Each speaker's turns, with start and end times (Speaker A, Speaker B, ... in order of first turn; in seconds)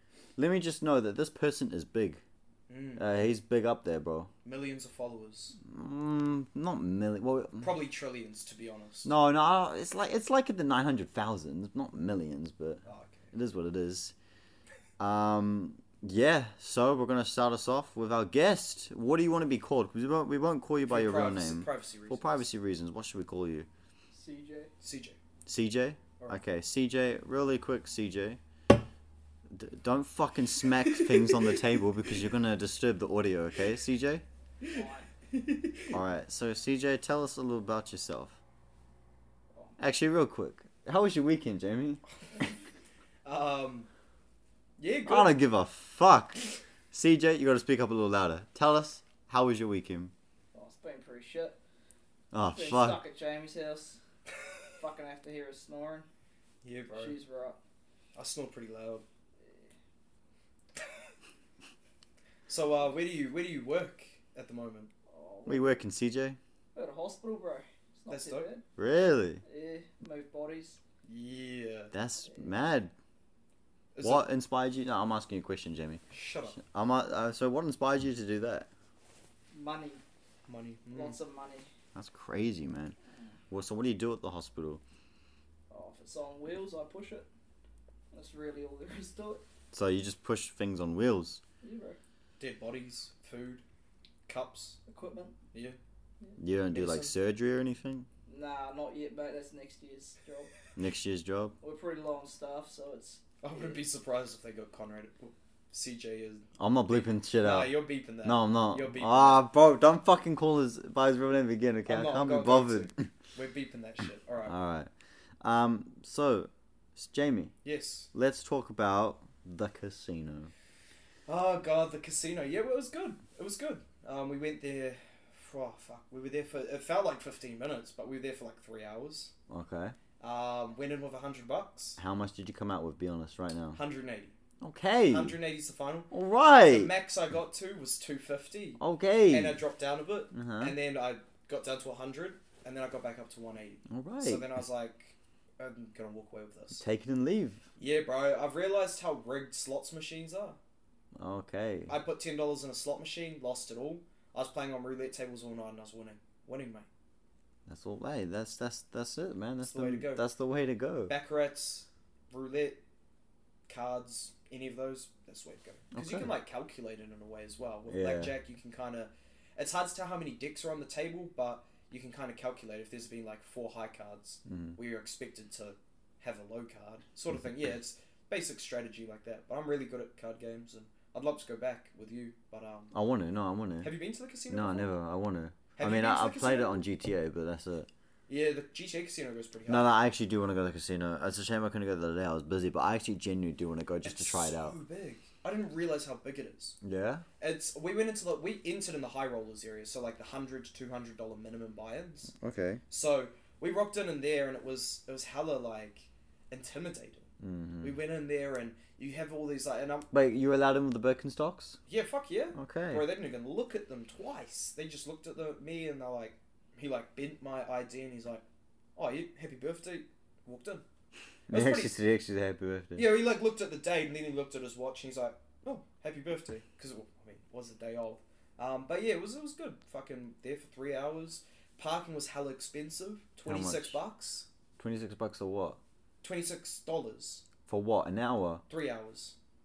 Speaker A: 0.3-2.2, 3.0-4.3, 5.7-7.7, 9.0-12.8, 13.3-14.1, 15.0-23.7, 25.4-28.4, 29.5-34.2, 35.9-38.3, 39.8-42.5, 45.0-46.4, 46.9-50.1, 52.3-53.0, 65.5-66.4, 68.8-69.4, 71.9-72.9, 74.0-76.0, 76.6-78.7, 81.9-82.9, 83.5-84.8, 89.7-91.4, 96.4-98.1, 100.8-101.5, 106.6-113.1, 114.4-114.9, 115.4-117.5, 118.1-120.5, 129.5-129.9, 132.0-133.8, 134.6-135.3, 136.1-136.9, 138.8-139.6, 140.3-140.8, 143.9-144.5, 146.8-147.6, 151.2-151.9, 157.7-161.1, 165.9-166.3, 167.9-168.3, 174.4-174.8, 182.9-183.9, 184.5-187.9, 189.7-194.8, 196.8-197.2, 202.4-202.8, 207.4-208.0, 210.1-211.8, 212.5-213.1, 221.5-223.1, 233.5-234.0, 234.8-235.8, 237.7-238.6
Speaker B: 2.7-3.1, 4.4-5.5, 7.6-9.1, 12.8-13.3, 20.9-22.4, 24.8-25.2, 35.3-35.9, 43.2-43.9, 44.8-45.4, 56.6-57.1, 58.1-59.0, 62.5-64.9, 68.1-68.5, 71.0-71.9, 73.9-74.2, 76.1-76.6, 80.5-81.2, 92.4-93.6, 94.3-94.8, 96.7-97.1, 103.4-109.5, 111.9-114.5, 117.6-118.1, 121.3-129.3, 130.2-132.0, 133.7-134.3, 135.1-136.1, 136.6-146.8, 147.8-150.6, 151.9-156.9, 159.6-160.2, 161.1-162.8, 163.7-182.9, 183.8-184.9, 185.7-186.8, 188.3-189.9, 194.0-196.8, 197.4-202.3, 202.9-207.3, 207.8-210.1, 211.9-218.4, 218.9-220.8, 221.5-221.9, 222.9-234.4, 236.2-237.4, 238.7-239.3
Speaker C: 24.1-24.7, 34.7-35.1, 50.5-51.6, 52.5-54.0, 54.8-56.0, 56.9-57.6, 59.4-59.7, 65.1-65.7, 66.7-68.6, 69.4-70.8, 79.5-80.0, 80.9-81.7, 85.7-87.3, 88.1-89.4, 91.6-92.0, 94.9-95.3, 98.3-100.5, 101.6-103.7